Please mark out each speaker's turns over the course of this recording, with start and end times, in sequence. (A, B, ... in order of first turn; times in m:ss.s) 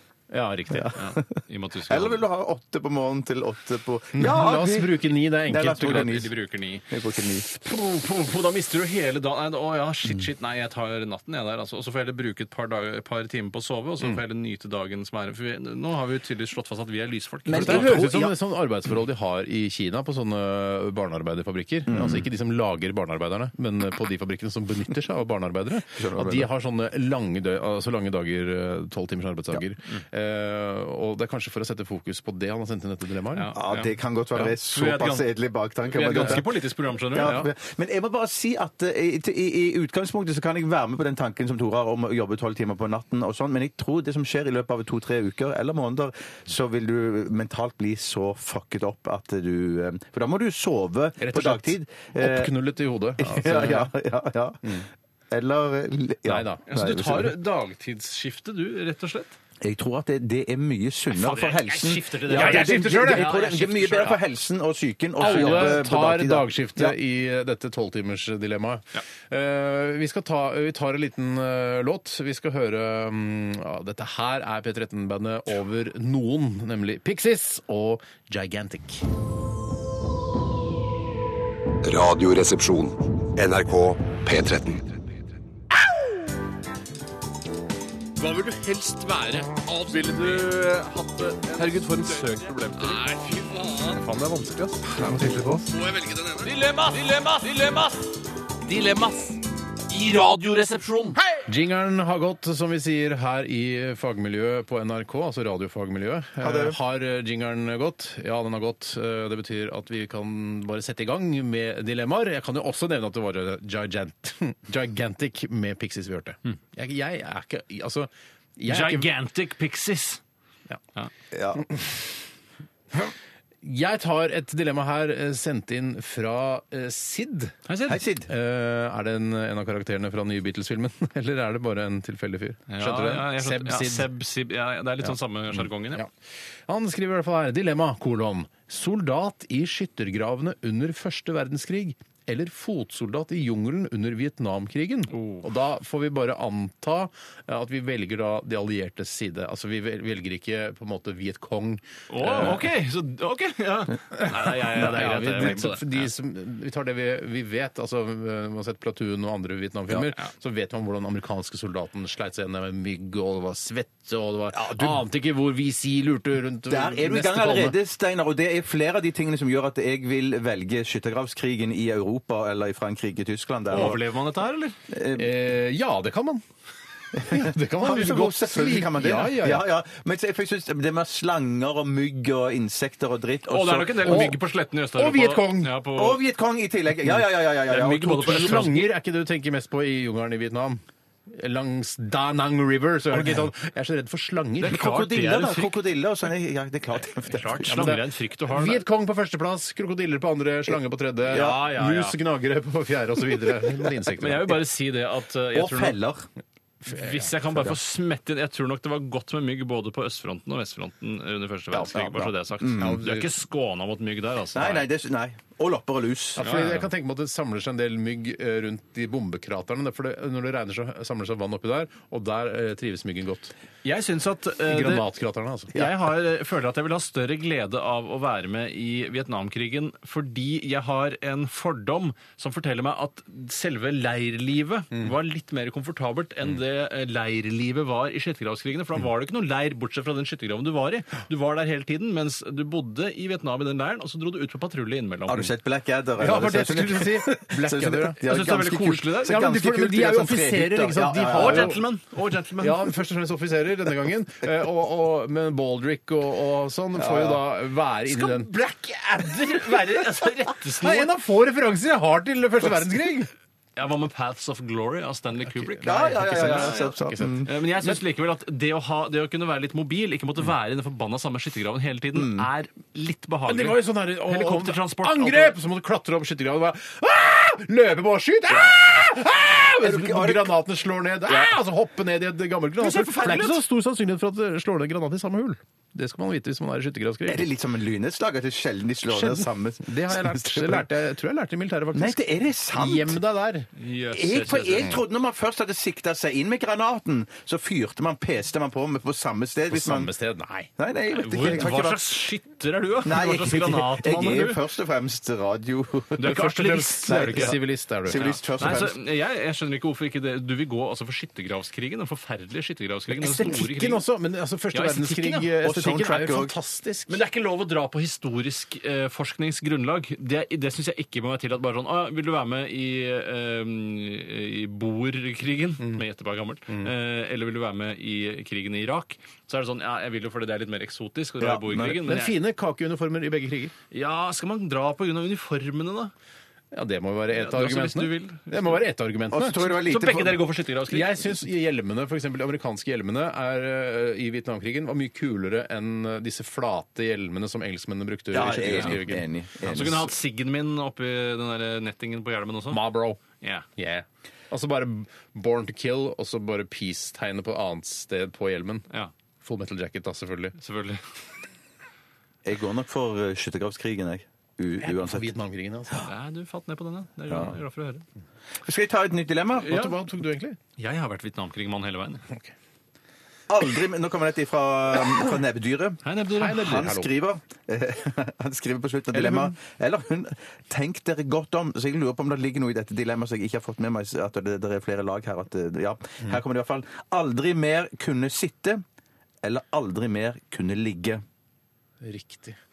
0:00.3-0:01.0 A
0:00.7-0:01.2 B
0:00.9-0:02.2 C
0:01.9-0:06.3 B
0:04.1-0:06.1 A
0:05.8-0:06.9 C
0:06.9-0:07.4 B
0:07.5-0:18.0 C
0:17.5-0:18.4 B
0:17.6-0:33.5 A
0:21.9-0:22.2 B
0:25.9-0:26.5 B
0:33.3-0:35.3 C
0:33.5-0:36.6 B
0:35.8-0:37.4 C
0:37.1-0:52.5 B
0:37.2-0:37.5 A
0:51.2-0:53.9 A
0:53.2-0:54.8 B
0:55.3-0:57.3 B
0:56.2-0:56.6 A
0:56.7-0:59.4 C
0:59.6-1:07.0 B
1:01.1-1:04.2 C
1:02.3-1:03.3 A
1:05.2-1:19.0 A
1:05.2-1:05.8 C
1:21.8-1:25.0 D
1:28.2-1:33.3 C
1:31.6-1:32.3 E
1:33.8-1:35.8 E
1:36.4-1:38.0 C
1:38.6-1:41.2 C
1:41.5-1:59.1 A
1:46.4-1:46.8 B
1:58.7-2:00.2 C
2:01.3-2:01.6 B
2:01.6-2:02.0 A
2:02.9-2:07.6 A
2:07.7-2:08.0 C
2:07.8-2:08.3 B
2:08.3-2:14.1 A
2:12.7-2:16.0 C
2:15.5-2:16.1 A
2:16.7-2:32.7 A
2:25.1-2:25.4 C
2:32.1-2:36.1 C
2:34.1-2:47.8 A
2:39.9-2:40.2 C
2:44.5-2:45.0 B
2:46.7-2:54.0 B
2:53.7-2:54.8 C
2:54.9-2:55.3 B
2:55.1-2:56.4 A
2:57.1-3:04.3 B
2:57.2-2:59.6 A
3:03.5-3:06.2 C
3:04.0-3:04.4 A
3:04.9-3:05.7 A
3:05.9-3:08.7 B
3:07.6-3:08.9 C
3:08.2-3:14.8 A
3:14.6-3:15.8 C
3:14.7-3:18.0 B
3:17.2-3:18.8 C
3:17.7-3:18.0 A
3:18.5-3:24.6 A
3:21.3-3:22.2 C
3:21.3-3:21.6 B
3:24.2-3:26.0 C
3:25.5-3:26.3 B
3:26.8-3:34.8 C
3:26.9-3:27.3 A
3:31.7-3:33.0 B
3:32.8-3:33.3 A
3:34.5-3:36.4 B
3:36.4-3:43.5 A
3:36.4-3:36.9 C
3:43.8-3:45.0 C
3:44.7-3:45.7 A
3:45.7-4:05.5 C
4:05.3-4:11.8 B
4:06.2-4:08.2 A
4:08.2-4:09.4 C
4:09.2-4:11.8 A
4:11.3-4:12.9 C
4:12.6-4:18.5 A
4:16.9-4:17.4 B
4:18.1-4:21.1 C
4:19.2-4:23.3 A
4:23.8-4:35.6 C
4:25.4-4:27.9 A
4:25.8-4:27.5 B
4:32.1-4:32.5 B
4:33.5-4:47.4 A
4:38.5-4:38.7 B
4:39.8-4:40.5 B
4:41.3-4:41.5 B
4:42.8-4:43.6 C
4:47.2-4:50.9 B
4:49.1-4:53.7 A
4:51.9-4:53.2 B
4:53.8-4:54.9 C
4:54.1-5:00.1 B
4:59.7-5:00.7 A
5:00.8-5:02.0 B
5:01.1-5:04.6 C
5:03.0-5:09.0 B
5:06.2-5:07.6 C
5:06.2-5:08.2 A
5:08.1-5:14.0 C
5:13.1-5:17.2 A
5:14.7-5:15.5 C
5:15.6-5:16.5 B
5:17.1-5:32.3 C
5:31.4-5:32.0 B
5:32.0-5:33.7 A
5:33.9-5:36.1 C
5:36.7-5:39.7 A
5:37.3-5:38.8 C
5:39.3-5:40.4 B
5:39.8-5:41.2 C
5:40.9-5:49.2 A
5:48.3-5:50.1 B
5:48.6-5:49.0 C
5:49.6-5:53.6 C
5:52.7-5:53.2 A
5:53.8-5:58.8 A
5:59.4-6:00.6 A
6:00.6-6:01.1 C
6:02.4-6:05.4 B
6:04.8-6:06.1 A
6:06.0-6:08.0 C
6:08.6-6:09.7 B
6:09.6-6:10.6 A
6:09.7-6:09.9 C
6:10.8-6:12.2 C
6:13.5-6:28.8 B
6:16.0-6:16.8 C
6:16.4-6:17.1 A
6:19.1-6:19.5 A
6:29.4-6:31.2 B
6:32.0-6:32.6 A